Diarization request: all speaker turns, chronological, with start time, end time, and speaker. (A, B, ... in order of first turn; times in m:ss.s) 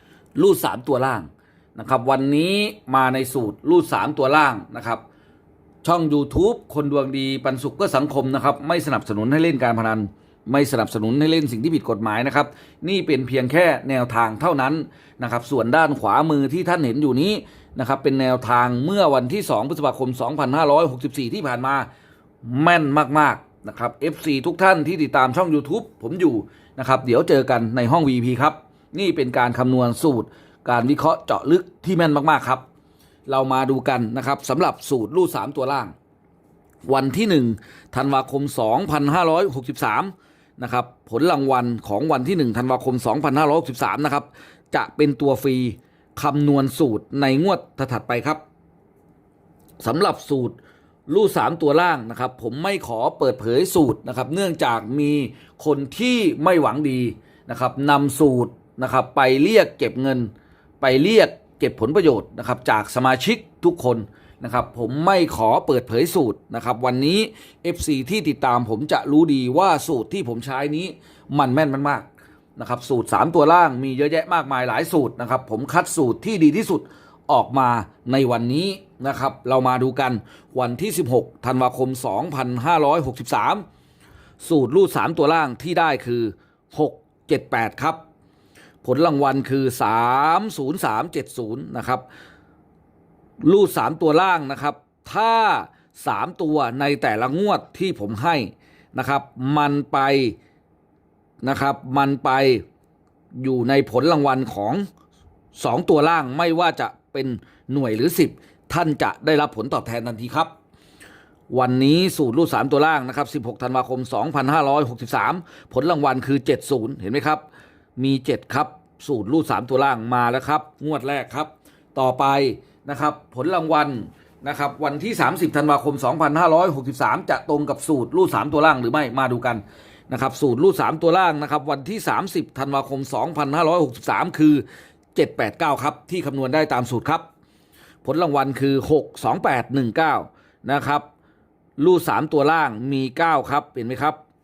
0:00.4-0:05.0 A
0:05.8-0:21.9 A
0:22.4-0:32.6 A
0:33.3-0:35.9 A
0:36.8-0:48.4 A
0:49.8-1:00.3 A
1:00.8-1:23.6 A
1:24.4-1:28.0 A
1:28.8-1:32.0 A
1:33.4-1:40.4 A
1:41.4-1:42.6 A
1:43.4-1:44.9 A
1:45.6-1:50.5 A
1:51.5-1:57.4 A
1:58.0-2:17.2 A
2:18.0-2:21.0 A
2:21.8-2:24.2 A